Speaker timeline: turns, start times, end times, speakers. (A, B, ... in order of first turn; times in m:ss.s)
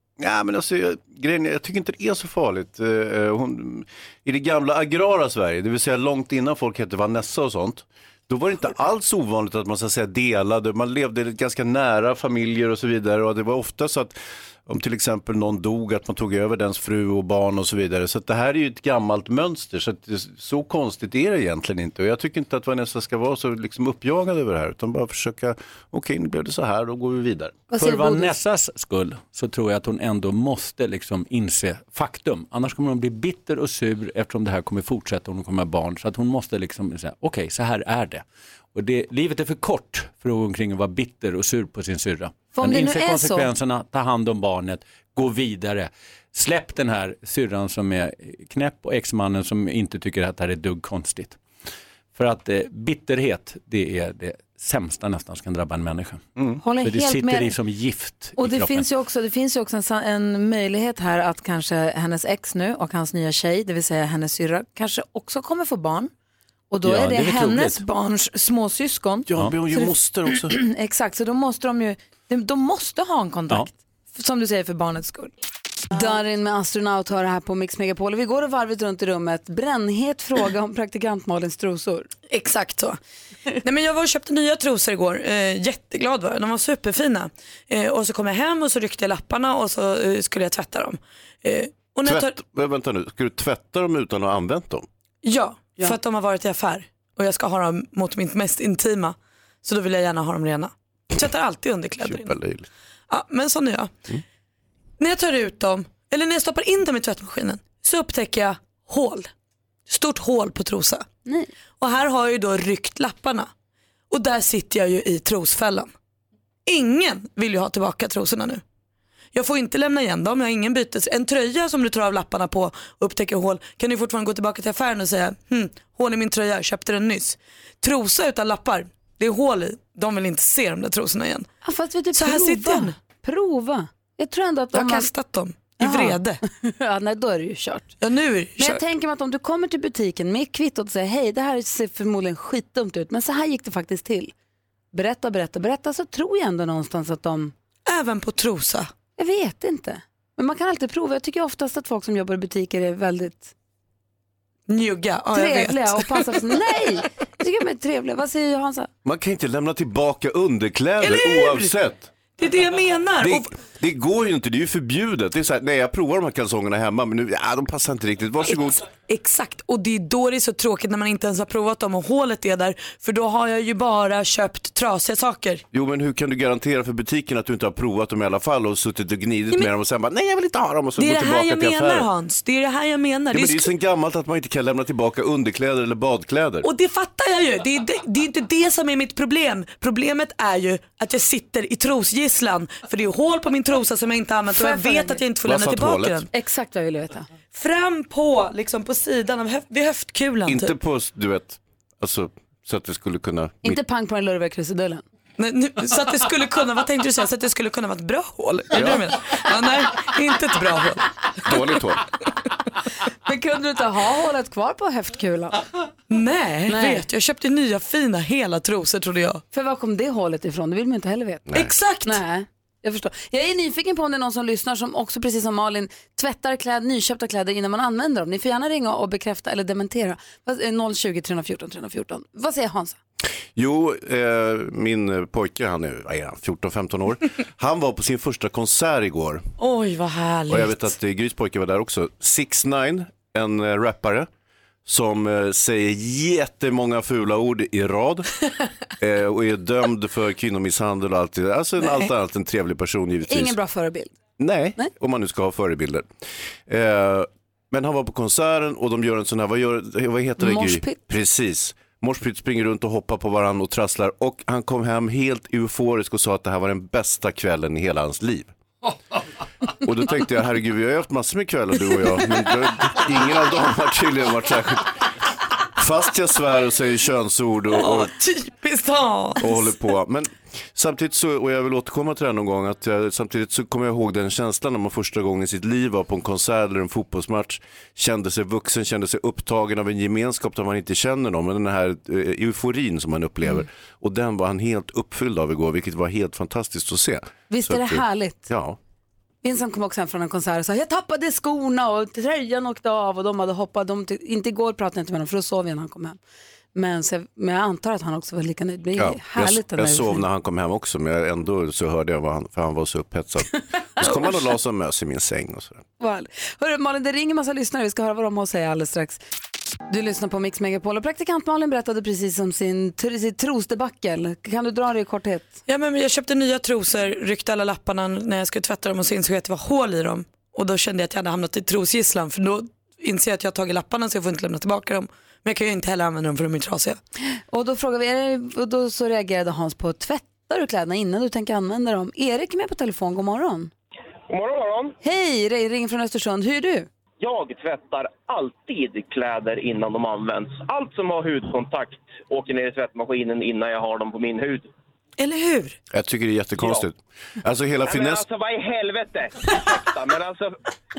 0:00.2-0:27.6 A
0:27.7-0:28.4 B
0:27.8-0:51.4 C
0:42.5-0:43.5 B
0:52.2-0:58.9 C
0:56.6-0:57.6 B
0:58.4-1:06.1 B
1:06.7-1:15.3 B
1:06.8-1:07.8 C
1:09.3-1:10.6 A
1:15.9-1:22.1 B
1:22.3-1:23.0 D
1:23.6-1:32.4 D
1:32.0-1:34.9 A
1:35.2-1:42.4 D
1:42.0-1:42.7 A
1:43.1-1:43.9 D
1:45.0-1:49.3 D
1:49.9-1:51.0 D
1:51.8-1:53.5 D
1:54.1-1:55.9 D
1:56.7-1:58.6 D
1:59.3-2:11.5 D
2:11.6-2:15.1 B
2:12.2-2:13.0 D
2:14.7-2:16.4 D
2:15.8-2:17.9 B
2:18.0-2:18.8 D
2:18.6-2:24.3 B
2:24.9-2:27.5 B
2:27.9-2:28.9 D
2:29.2-2:33.5 B
2:34.7-2:36.5 D
2:35.3-2:38.9 B
2:39.0-2:42.1 A
2:41.0-2:41.7 D
2:42.4-2:43.5 D
2:43.2-2:48.8 A
2:49.1-2:55.6 D
2:55.7-3:02.1 A
3:01.0-3:03.7 D
3:03.3-3:06.7 A
3:06.6-3:16.3 D
3:14.5-3:15.2 B
3:15.4-3:16.2 A
3:16.3-3:17.3 B
3:17.5-3:20.7 D
3:20.5-3:23.8 A
3:23.6-3:25.0 B
3:25.4-3:31.1 D
3:28.7-3:29.1 A
3:31.4-3:32.0 A
3:33.2-3:35.6 B
3:36.1-3:39.4 D
3:36.7-3:37.0 B
3:39.5-3:53.0 B
3:41.5-3:42.2 D
3:53.6-3:59.4 A
3:59.6-4:00.9 D
4:00.5-4:04.3 A
4:04.8-4:08.3 A
4:09.0-4:13.6 A
4:13.3-4:14.1 B
4:14.4-4:16.1 A
4:16.7-4:28.5 A
4:20.4-4:21.0 B
4:29.7-4:35.0 A
4:35.8-4:38.1 A
4:37.8-4:39.7 D
4:39.4-4:58.8 A
4:57.5-4:58.5 B
4:59.4-5:06.2 B
5:06.8-5:10.3 B
5:09.0-5:15.8 A
5:16.0-5:19.2 B
5:19.9-5:25.6 B
5:25.7-5:37.0 D
5:37.5-5:43.7 B
5:44.3-5:45.0 E
5:45.0-5:46.9 B
5:47.2-5:54.7 E
5:55.2-5:55.8 D
5:55.9-5:58.2 A
5:56.6-5:56.8 E
5:57.8-6:00.6 E